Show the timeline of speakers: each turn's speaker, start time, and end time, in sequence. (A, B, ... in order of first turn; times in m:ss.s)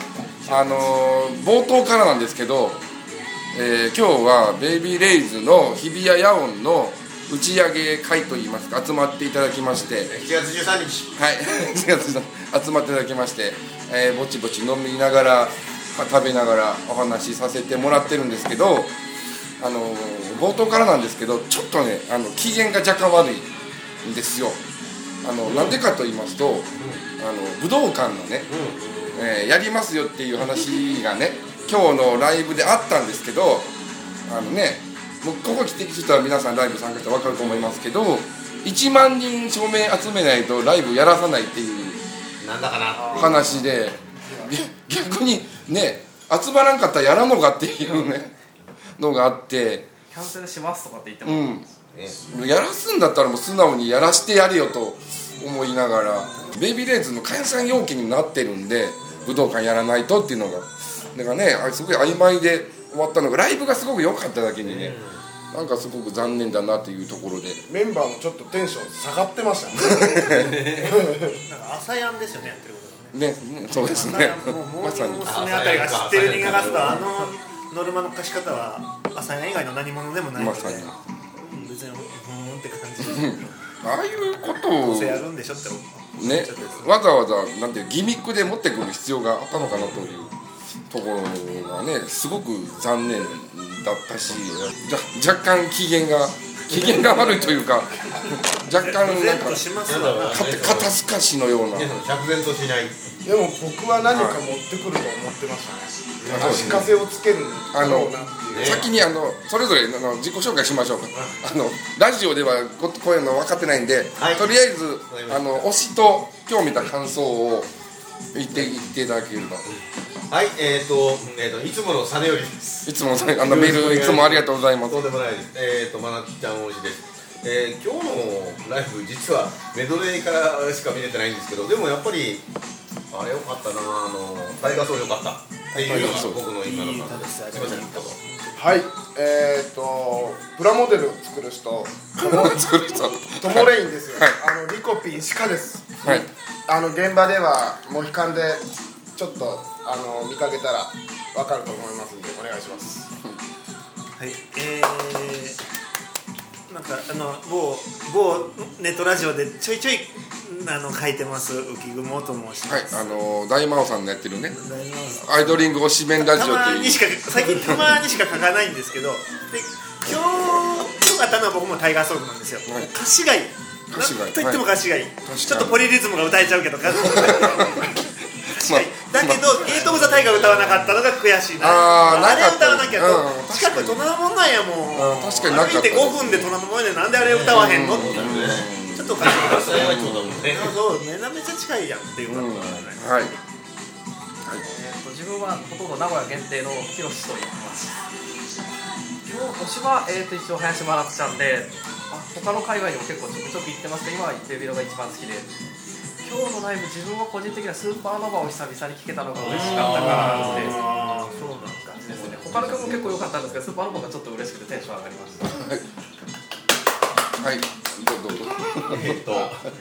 0:00.5-0:00.8 A
0:00.5-0:02.8 B
0:03.5-0:10.1 B
0:10.0-0:11.1 A
0:11.2-0:18.9 B
0:19.6-0:23.5 B
0:24.0-0:24.6 B
0:25.2-0:28.5 B
0:25.4-0:25.8 A
0:26.8-0:27.0 A
0:28.5-0:29.2 A
0:29.1-0:33.7 B
0:34.3-0:42.0 B
0:37.3-0:37.7 A
0:42.4-0:43.7 A
0:43.1-0:48.3 B
0:49.0-0:49.9 B
0:50.1-0:51.6 C
0:51.2-0:51.6 B
0:51.9-0:52.2 A
0:52.3-1:05.0 B
1:04.6-1:05.2 A
1:05.5-1:07.6 B
1:07.7-1:11.4 D
1:09.9-1:10.6 B
1:10.3-1:11.1 A
1:11.4-1:23.5 E
1:13.1-1:15.3 B
1:15.2-1:17.3 A
1:20.4-1:20.9 B
1:23.0-1:25.2 B
1:24.8-1:26.1 E
1:26.2-1:30.3 B
1:26.2-1:26.9 A
1:29.7-1:30.0 A
1:30.9-1:39.6 B
1:38.7-1:40.8 E
1:39.8-1:40.9 A
1:40.3-1:41.9 B
1:41.7-1:43.0 A
1:43.2-1:48.8 D
1:44.1-1:44.4 B
1:46.2-1:46.9 A
1:46.3-1:46.9 B
1:47.7-1:57.7 B
1:48.5-1:48.9 A
1:54.2-1:54.5 A
1:55.1-1:55.7 A
1:58.3-1:59.7 B
1:58.5-1:58.8 A
1:59.7-2:12.4 A
2:02.8-2:05.0 B
2:13.1-2:18.2 A
2:15.7-2:18.7 E
2:15.9-2:16.4 B
2:18.6-2:33.1 D
2:22.2-2:24.4 B
2:34.2-2:35.6 E
2:36.7-2:43.2 E
2:42.6-2:44.6 B
2:44.6-2:45.3 E
2:45.2-2:47.9 B
2:46.2-2:58.0 E
2:53.9-2:54.6 B
2:55.2-2:55.8 B
2:56.9-2:59.9 B
2:58.5-3:13.0 E
2:59.9-3:00.8 A
3:01.6-3:04.0 B
3:04.9-3:06.5 B
3:07.2-3:08.7 A
3:07.5-3:10.4 B
3:09.2-3:10.8 A
3:12.3-3:13.3 B
3:14.6-3:18.0 C
3:19.2-3:25.5 C
3:26.2-3:30.8 C
3:29.4-3:33.0 A
3:29.8-3:31.2 E
3:32.0-3:35.5 C
3:35.5-3:35.8 B
3:37.4-3:39.5 B
3:38.9-3:39.6 A